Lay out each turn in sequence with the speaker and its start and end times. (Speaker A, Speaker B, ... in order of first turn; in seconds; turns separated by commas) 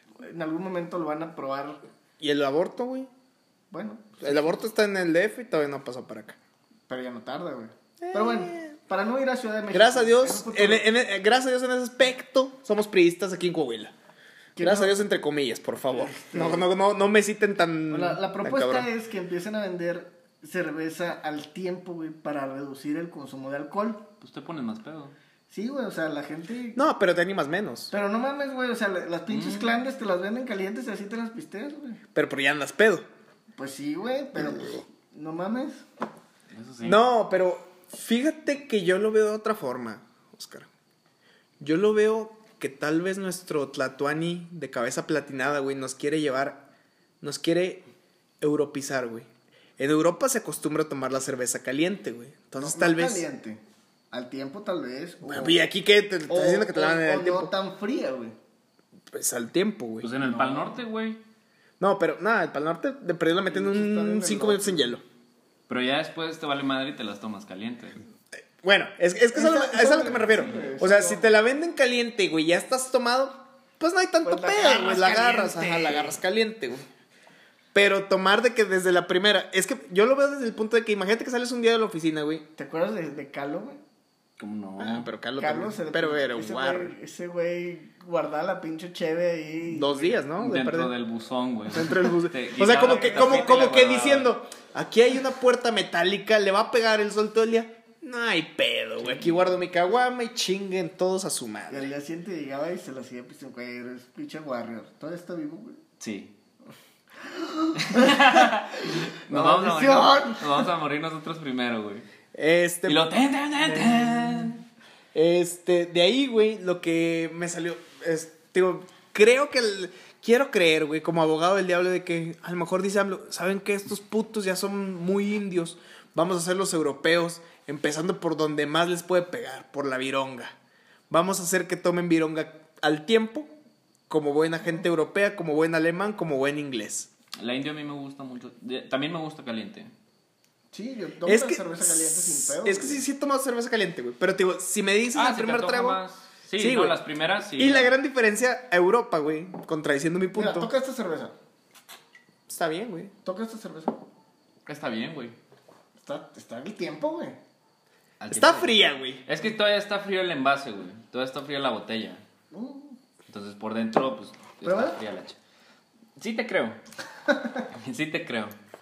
Speaker A: 0.2-1.8, Speaker B: 2.2-3.1, Speaker A: 3.7-4.6, Speaker B: 4.2-6.4, Speaker A: 6.9-10.9, Speaker B: 8.0-8.7, Speaker B: 9.7-13.9, Speaker A: 14.6-15.0, Speaker B: 14.6-18.9, Speaker A: 15.9-16.7, Speaker A: 17.9-24.1, Speaker C: 24.2-25.1, Speaker A: 25.5-26.8, Speaker B: 26.8-27.9, Speaker A: 27.9-32.0, Speaker C: 29.3-29.7, Speaker B: 32.1-33.1, Speaker A: 33.6-35.8, Speaker C: 36.5-37.0, Speaker B: 36.8-40.7, Speaker B: 41.6-46.7, Speaker B: 47.2-47.8, Speaker B: 48.4-49.3, Speaker B: 49.8-53.3, Speaker A: 52.6-55.6, Speaker B: 55.2-57.5, Speaker A: 56.3-58.4, Speaker B: 59.1-60.1, Speaker C: 60.0-61.2, Speaker A: 60.2-60.8, Speaker B: 61.8-65.0, Speaker A: 63.5-65.0, Speaker C: 65.7-68.0, Speaker B: 68.6-76.9, Speaker A: 69.3-71.3, Speaker A: 74.2-76.2, Speaker B: 77.7-82.5, Speaker A: 82.6-83.8, Speaker C: 84.4-85.1, Speaker B: 84.8-86.9, Speaker A: 85.4-90.2, Speaker B: 89.7-90.9, Speaker C: 90.4-94.3, Speaker B: 91.7-101.9, Speaker A: 92.7-93.5, Speaker A: 101.7-105.8, Speaker C: 106.0-106.3, Speaker A: 107.2-110.7, Speaker C: 107.7-112.1, Speaker B: 112.3-113.1, Speaker C: 112.9-114.6, Speaker B: 113.7-114.5, Speaker B: 115.1-130.6, Speaker B: 131.1-133.5, Speaker B: 134.1-137.1, Speaker C: 137.4-139.9, Speaker A: 140.7-143.1, Speaker B: 141.2-146.0, Speaker C: 145.1-147.9, Speaker B: 146.6-150.7, Speaker A: 150.3-151.3, Speaker B: 152.5-153.1, Speaker A: 153.2-154.0, Speaker C: 154.7-155.4, Speaker A: 156.0-157.4, Speaker C: 158.2-162.2, Speaker B: 158.3-159.2, Speaker A: 162.5-163.0, Speaker C: 163.3-165.4, Speaker A: 164.6-165.0, Speaker C: 166.2-166.8, Speaker A: 167.3-167.6, Speaker C: 167.7-168.6